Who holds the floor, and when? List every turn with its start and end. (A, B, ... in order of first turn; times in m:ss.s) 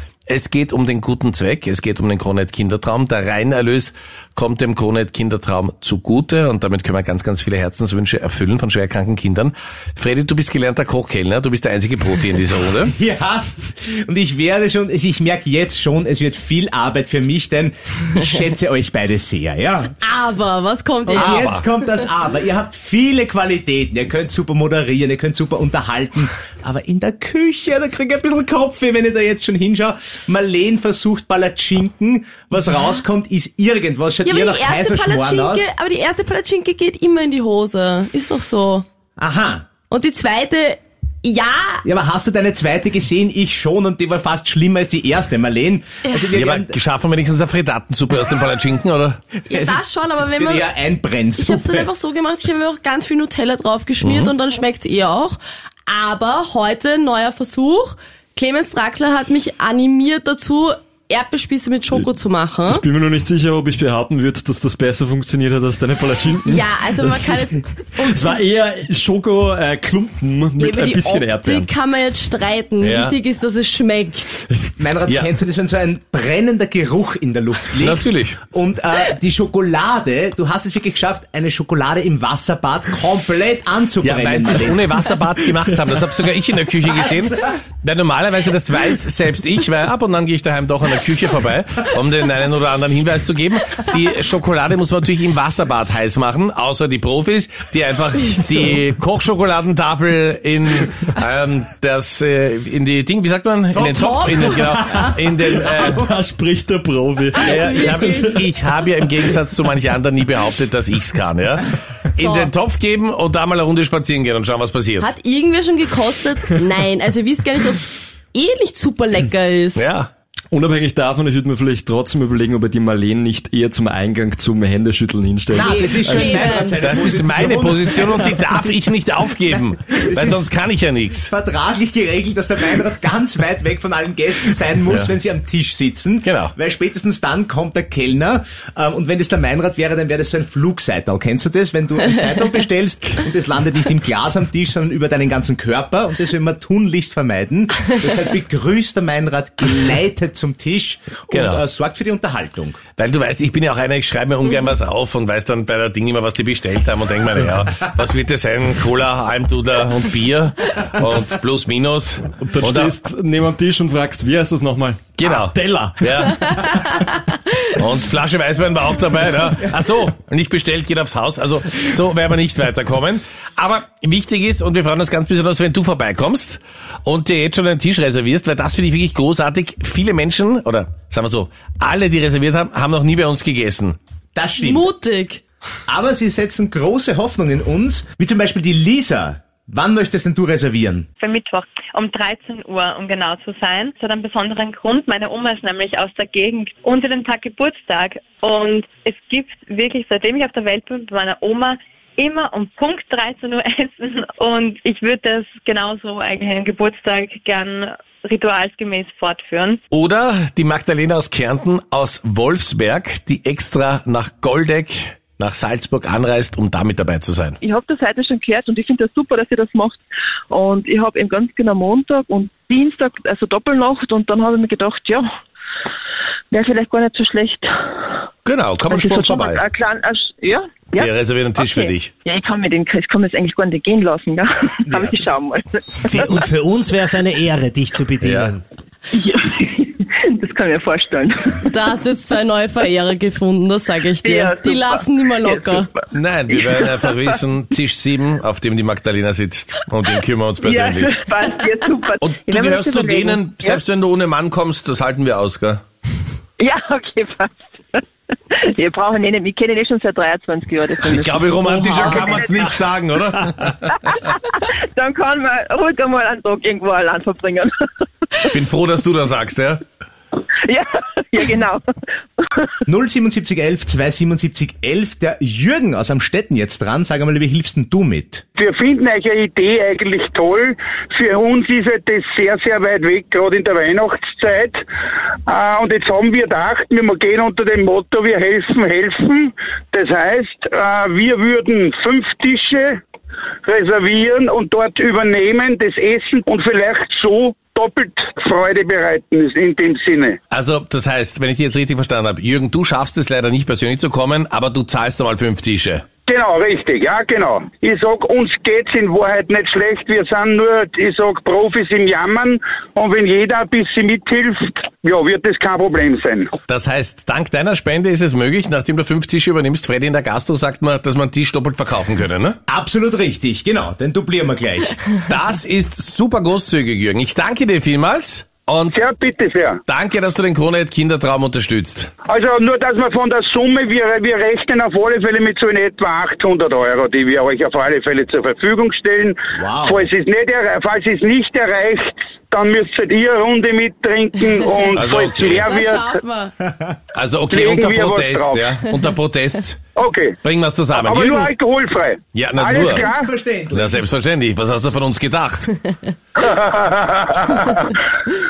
0:00.3-0:12.9 A
0:12.9-0:19.9 B
0:20.0-0:21.5 C
0:21.1-0:21.6 A
0:21.2-0:35.7 B
0:34.2-0:38.8 C
0:39.2-0:39.7 B
0:39.9-0:41.8 C
0:41.8-0:46.8 B
0:46.3-0:49.2 A
0:49.5-0:50.7 C
0:49.5-0:51.9 B
0:51.4-1:02.8 C
0:54.0-0:54.3 A
1:02.7-1:07.2 D
1:06.5-1:08.1 C
1:08.0-1:11.7 D
1:10.6-1:14.4 C
1:12.8-1:13.2 A
1:14.8-1:24.9 B
1:17.8-1:18.4 A
1:24.0-1:46.0 A
1:27.0-1:27.5 B
1:44.4-1:44.8 D
1:45.6-1:48.2 D
1:47.4-1:48.4 C
1:47.4-1:55.1 A
1:52.2-1:52.5 C
1:55.0-1:59.9 C
1:59.8-2:00.1 A
2:00.5-2:06.4 D
2:05.5-2:08.4 B
2:05.6-2:07.2 C
2:06.8-2:11.3 A
2:10.0-2:10.5 B
2:11.3-2:32.8 B
2:16.2-2:16.5 A
2:31.3-2:31.6 A
2:33.0-2:43.0 A
2:42.4-2:46.0 D
2:45.2-3:04.0 A
3:04.4-3:04.9 B
3:04.6-3:05.4 C
3:05.9-3:11.1 B
3:11.2-3:29.8 E
3:29.9-3:37.6 A
3:37.6-3:45.3 F
3:46.5-3:47.9 F
3:48.4-3:49.6 A
3:48.9-3:56.5 F
3:51.0-3:52.1 A
3:54.9-3:55.2 B
3:56.4-3:58.3 G
3:58.2-3:58.6 A
3:59.1-4:01.7 F
4:01.7-4:05.9 C
4:04.2-4:07.4 F
4:06.1-4:11.2 A
4:10.6-4:13.8 F
4:12.2-4:15.8 A
4:16.6-4:22.8 F
4:21.0-4:23.8 A
4:24.1-4:27.7 F
4:28.4-4:29.8 A
4:30.7-4:31.8 F
4:32.4-4:32.7 F
4:32.9-4:38.4 B
4:38.6-4:44.8 H
4:45.5-4:53.0 H
4:53.6-5:00.4 H
5:00.5-5:06.0 A
5:06.3-5:16.5 H
5:16.7-5:22.6 A
5:22.7-5:25.0 B
5:25.3-5:29.0 A
5:28.9-5:29.8 H
5:29.9-5:32.1 A
5:32.3-5:46.1 H
5:39.6-5:40.1 B
5:45.0-5:45.8 A
5:45.5-5:46.5 C
5:47.2-5:49.8 A
5:47.5-5:48.7 H
5:50.0-5:50.4 H
5:50.4-5:51.5 A
5:50.9-5:53.3 H
5:52.3-5:53.1 A
5:52.6-5:54.0 B
5:53.7-5:55.8 A
5:56.4-5:57.9 H